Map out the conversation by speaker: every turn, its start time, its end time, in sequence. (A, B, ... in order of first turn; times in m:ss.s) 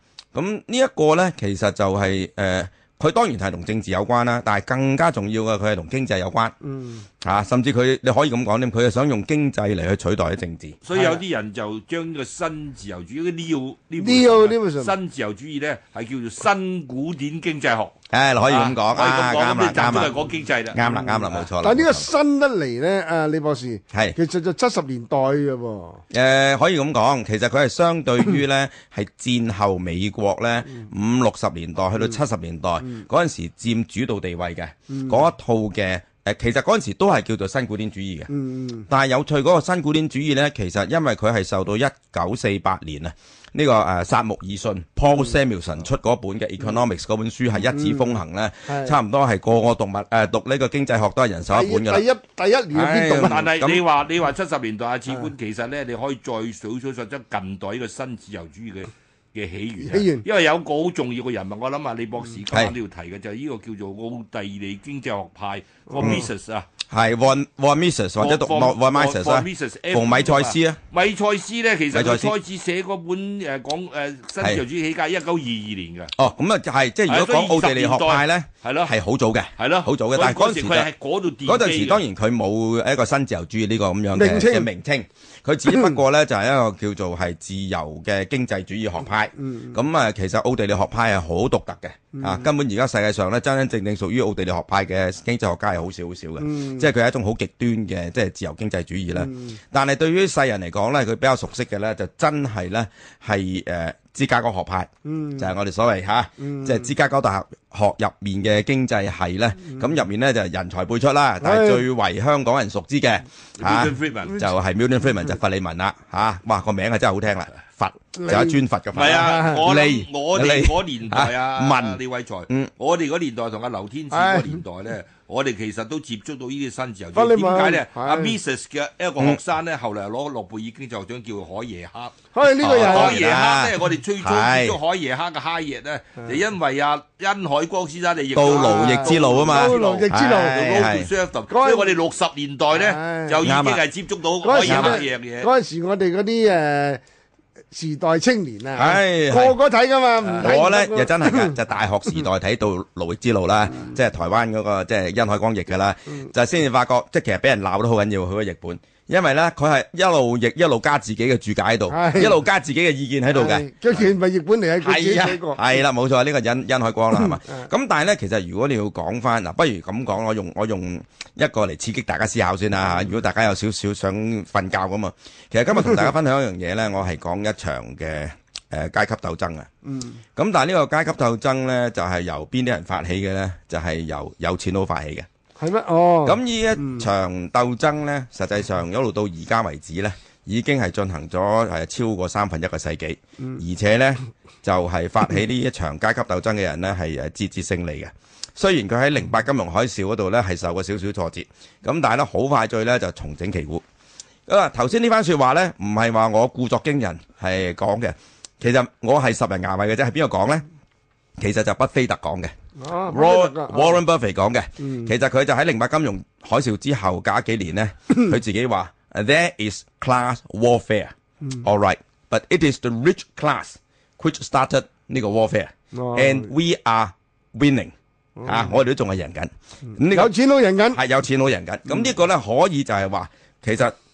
0:00.3-0:06.5 A
0:06.6-0:07.1 B
0:07.2-0:10.8 A
0:10.8-0:20.8 C
0:10.9-0:11.2 B
0:14.0-0:14.9 B
0:18.1-0:20.2 A
0:20.7-0:22.1 A
0:20.8-0:26.0 B
0:26.1-0:38.3 A
0:34.9-0:35.2 B
0:38.3-0:38.9 B
0:38.9-0:52.1 A
0:47.7-0:49.0 B
0:51.5-0:53.4 B
0:52.7-0:53.8 A
0:53.2-1:06.7 C
0:59.8-1:00.2 B
1:05.9-1:06.3 B
1:06.0-1:06.2 A
1:06.9-1:10.8 A
1:08.2-1:16.1 C
1:11.9-1:12.3 A
1:16.2-1:20.9 A
1:17.1-1:19.0 C
1:19.6-1:22.0 C
1:21.4-2:02.7 A
1:24.1-1:24.7 B
1:25.7-1:26.0 B
1:29.4-1:29.8 B
1:32.1-1:32.5 B
1:36.4-1:36.9 B
1:39.2-1:39.6 B
1:45.0-1:45.5 B
1:46.4-1:46.9 B
1:51.4-1:51.9 B
1:53.6-1:54.4 C
1:58.1-1:59.6 B
1:58.9-2:25.5 C
2:04.1-2:04.6 B
2:07.1-2:08.4 B
2:12.3-2:13.2 B
2:12.6-2:14.8 A
2:18.4-2:21.1 A
2:18.5-2:20.6 B
2:21.5-2:22.0 B
2:22.7-2:23.4 B
2:23.4-2:23.8 A
2:24.4-2:27.0 B
2:24.6-2:25.0 A
2:27.7-2:31.6 B
2:28.7-2:29.6 A
2:30.2-2:30.6 C
2:30.4-2:44.1 A
2:41.9-2:42.4 B
2:43.3-2:45.8 B
2:44.8-2:59.7 A
2:47.2-2:47.7 B
2:59.8-3:00.2 B
3:00.4-3:05.3 A
3:05.6-3:07.1 B
3:06.2-3:23.8 A
3:24.5-3:30.6 A
3:31.4-3:32.5 A
3:32.8-3:34.0 B
3:33.1-3:47.9 A
3:34.8-3:35.1 B
3:45.9-3:46.5 B
3:48.4-3:48.8 B
3:48.4-3:50.3 A
3:50.0-3:51.0 B
3:50.9-3:53.9 A